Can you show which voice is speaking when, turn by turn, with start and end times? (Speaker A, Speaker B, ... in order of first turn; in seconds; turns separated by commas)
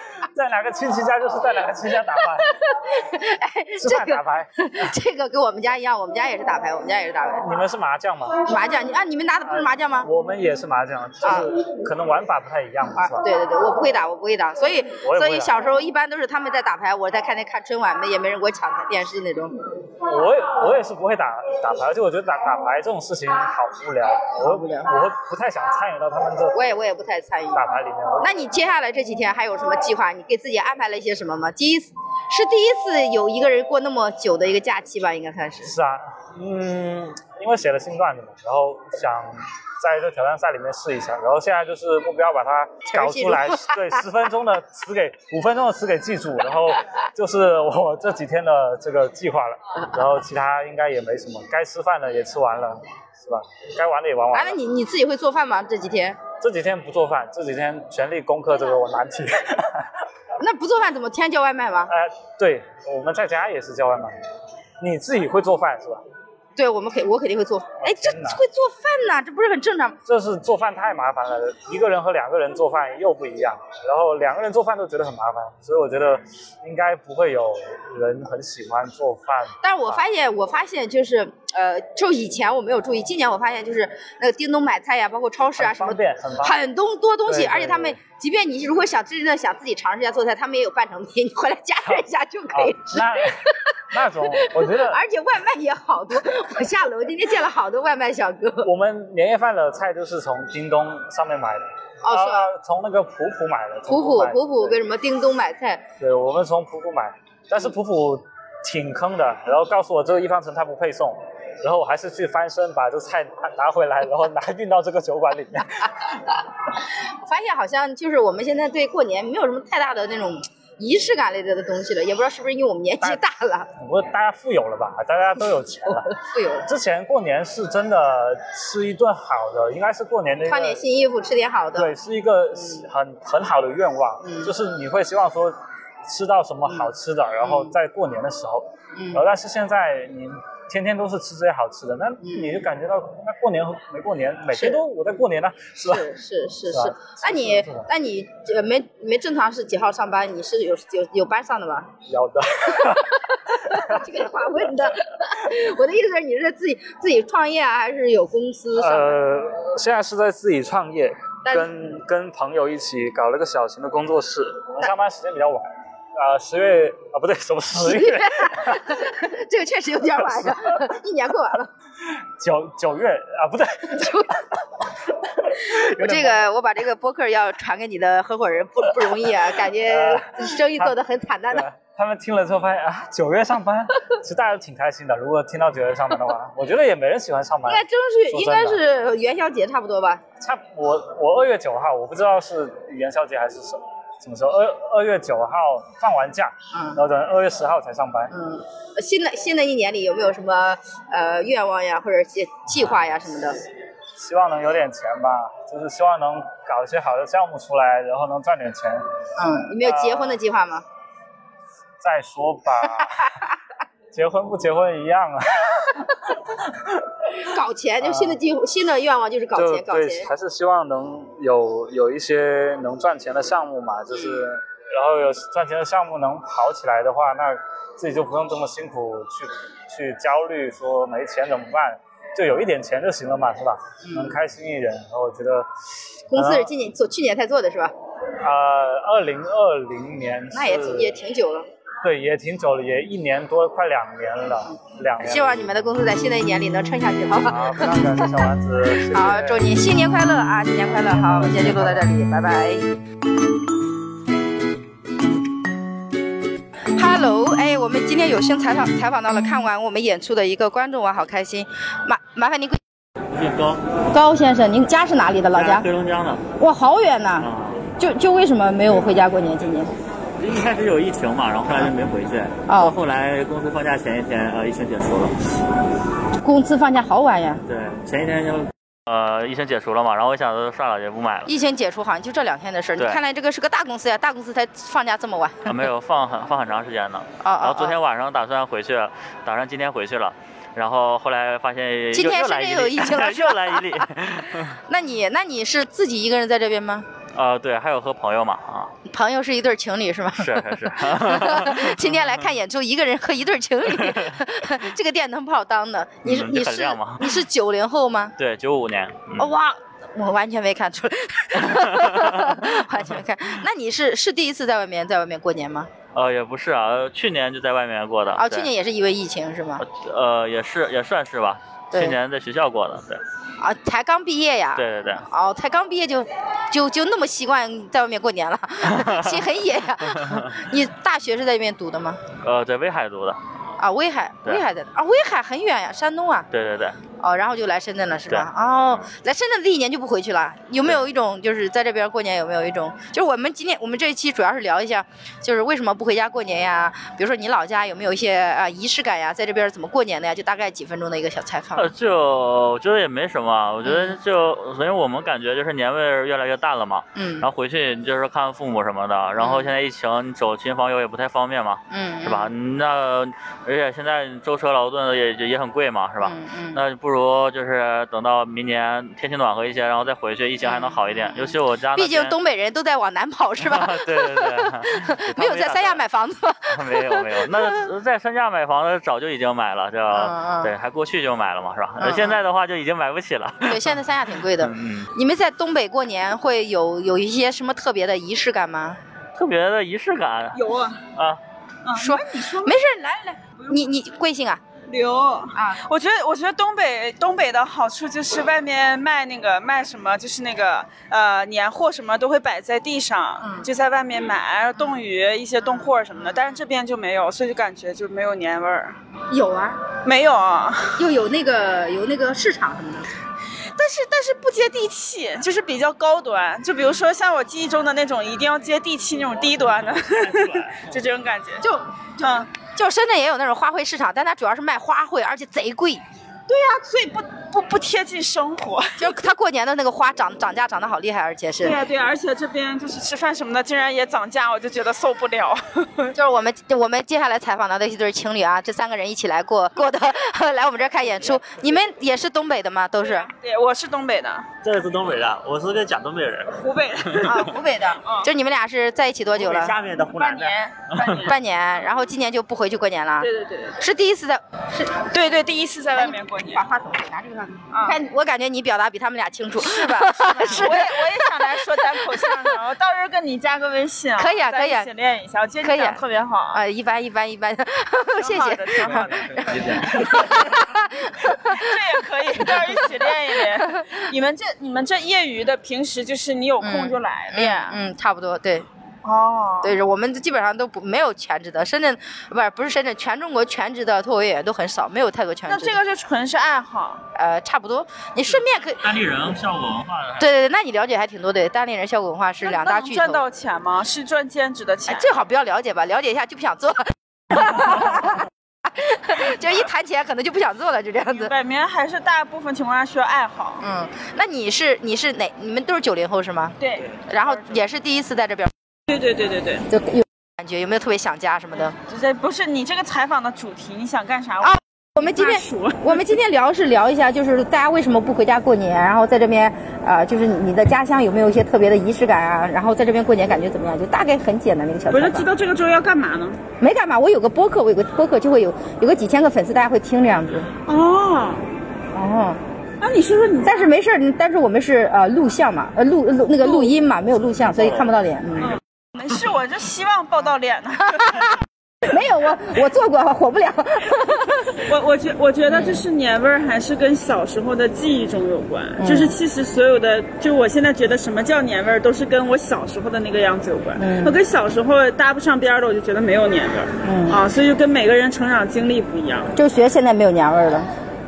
Speaker A: 0.2-2.5, Speaker B: 2.5-7.5, Speaker A: 3.8-4.9, Speaker A: 7.4-8.4, Speaker B: 8.4-10.1, Speaker A: 9.5-13.3, Speaker B: 11.2-11.5, Speaker B: 12.9-19.6, Speaker A: 15.0-15.8, Speaker A: 20.1-26.6, Speaker B: 24.4-24.9, Speaker B: 26.5-27.6, Speaker A: 27.5-28.4, Speaker B: 28.2-35.7, Speaker A: 35.6-54.6, Speaker B: 42.9-43.9, Speaker B: 54.3-56.2, Speaker A: 56.4-59.9, Speaker B: 60.4-61.9, Speaker A: 61.9-64.1, Speaker A: 64.8-66.0, Speaker B: 66.6-70.0, Speaker A: 67.8-68.4, Speaker A: 70.1-80.0, Speaker B: 79.6-93.2, Speaker A: 85.6-86.6, Speaker A: 87.2-88.0, Speaker A: 92.5-95.0, Speaker B: 94.2-98.7, Speaker A: 98.6-104.8, Speaker B: 102.0-102.5, Speaker B: 103.9-105.9, Speaker A: 106.0-116.1, Speaker B: 117.2-123.7, Speaker A: 123.8-126.1, Speaker B: 126.1-126.7, Speaker A: 126.6-130.8, Speaker B: 130.5-131.9, Speaker A: 131.8-146.1, Speaker B: 134.2-134.5, Speaker B: 137.4-137.7, Speaker B: 138.9-139.2, Speaker B: 142.2-142.6, Speaker B: 144.5-144.8, Speaker B: 145.8-151.9, Speaker A: 146.7-147.9, Speaker A: 152.1-154.1, Speaker B: 153.5-159.2, Speaker A: 158.8-169.1, Speaker B: 161.4-161.7, Speaker B: 167.8-171.7, Speaker A: 170.2-170.6, Speaker A: 172.4-174.3, Speaker B: 173.9-174.4, Speaker A: 175.5-176.5, Speaker B: 175.8-181.7, Speaker A: 179.8-181.0, Speaker A: 181.5-188.8, Speaker B: 187.7-190.2, Speaker A: 190.4-198.3, Speaker B: 196.7-197.0, Speaker B: 198.3-203.6, Speaker A: 204.2-209.1, Speaker B: 209.4-210.8, Speaker A: 209.8-210.4, Speaker A: 212.0-213.4, Speaker A: 214.1-217.0, Speaker B: 217.4-220.3, Speaker A: 218.0-218.4, Speaker A: 219.6-235.7, Speaker B: 234.0-234.4, Speaker B: 236.3-237.9, Speaker A: 236.3-236.7, Speaker A: 238.4-241.2, Speaker B: 240.5-241.7, Speaker A: 242.0-245.6, Speaker B: 245.2-248.3, Speaker A: 247.4-249.7, Speaker B: 249.1-252.9, Speaker A: 251.2-252.0, Speaker B: 257.0-262.8, Speaker C: 263.3-263.8, Speaker B: 264.1-265.9, Speaker C: 265.5-266.4, Speaker B: 266.6-269.9, Speaker C: 267.4-267.8, Speaker C: 270.4-275.4, Speaker B: 272.7-273.0, Speaker B: 276.4-277.6, Speaker C: 277.7-281.5, Speaker B: 281.5-285.8, Speaker C: 285.7-294.8, Speaker B: 287.4-288.0, Speaker B: 292.1-294.1, Speaker B: 294.7-297.1, Speaker C: 297.3-298.9, Speaker B: 299.1-308.4, Speaker C: 300.4-302.4, Speaker C: 304.0-304.3, Speaker C: 306.2-307.4, Speaker C: 308.4-309.5, Speaker B: 309.4-315.9, Speaker C: 311.7-312.6, Speaker C: 316.1-318.7, Speaker B: 318.4-319.8, Speaker C: 319.8-323.2, Speaker B: 323.6-332.2, Speaker C: 324.8-325.2, Speaker C: 328.9-329.4, Speaker C: 330.1-330.6, Speaker C: 332.4-333.4, Speaker B: 333.8-336.5, Speaker C: 336.5-337.0, Speaker B: 337.2-351.9, Speaker C: 338.3-339.1, Speaker C: 351.8-372.4, Speaker B: 353.8-354.2, Speaker B: 357.1-357.5, Speaker B: 359.4-359.7, Speaker B: 361.9-362.5, Speaker B: 366.2-366.8, Speaker B: 370.6-377.9, Speaker C: 373.6-376.0, Speaker C: 376.7-385.1, Speaker B: 380.1-380.7, Speaker B: 382.0-382.4, Speaker B: 383.6-389.0, Speaker C: 389.4-390.6, Speaker D: 390.5-391.1, Speaker C: 391.1-391.4, Speaker D: 391.9-392.8, Speaker B: 391.9-394.6, Speaker D: 393.6-393.8, Speaker D: 394.9-409.0, Speaker B: 395.6-395.8, Speaker B: 403.4-403.7, Speaker B: 409.3-409.9, Speaker D: 410.0-411.0, Speaker B: 411.0-413.1, Speaker D: 413.8-421.6, Speaker B: 421.6-426.0, Speaker D: 422.2-422.5, Speaker D: 426.5-429.1, Speaker B: 429.0-431.8, Speaker D: 431.6-436.1, Speaker B: 436.1-443.3, Speaker D: 443.0-444.5, Speaker E: 444.6-446.6, Speaker D: 446.6-448.3, Speaker B: 447.2-449.8, Speaker E: 449.3-450.6, Speaker D: 450.0-451.4, Speaker B: 451.2-455.1, Speaker D: 453.2-453.8, Speaker D: 455.1-456.6, Speaker B: 456.0-462.4, Speaker D: 457.7-458.0, Speaker D: 459.6-466.6, Speaker B: 464.2-464.9, Speaker B: 465.6-471.8, Speaker D: 468.2-470.4, Speaker C: 469.5-470.1, Speaker D: 471.4-477.8, Speaker B: 472.4-472.8, Speaker B: 473.5-473.9, Speaker B: 476.6-478.7, Speaker D: 479.0-479.8, Speaker B: 479.6-485.8, Speaker D: 485.5-487.0, Speaker B: 487.1-488.8, Speaker C: 488.3-490.3, Speaker B: 490.2-493.2, Speaker D: 492.4-495.2, Speaker B: 494.9-498.2, Speaker B: 498.8-501.3, Speaker D: 501.1-503.6, Speaker B: 503.6-506.6, Speaker D: 506.6-507.6, Speaker B: 507.1-508.5, Speaker D: 508.9-509.7, Speaker B: 509.7-511.8, Speaker D: 511.8-516.1, Speaker B: 514.4-525.3, Speaker D: 524.9-526.4, Speaker B: 526.6-530.5, Speaker D: 530.6-531.4, Speaker B: 531.9-532.4, Speaker D: 532.8-533.7, Speaker B: 533.4-538.6, Speaker D: 536.4-536.7, Speaker D: 538.4-541.4, Speaker B: 541.0-541.3, Speaker B: 541.8-544.6, Speaker D: 544.6-559.3, Speaker B: 545.5-545.8, Speaker B: 548.8-549.1, Speaker B: 553.8-554.2, Speaker B: 556.8-557.2, Speaker B: 559.3-560.7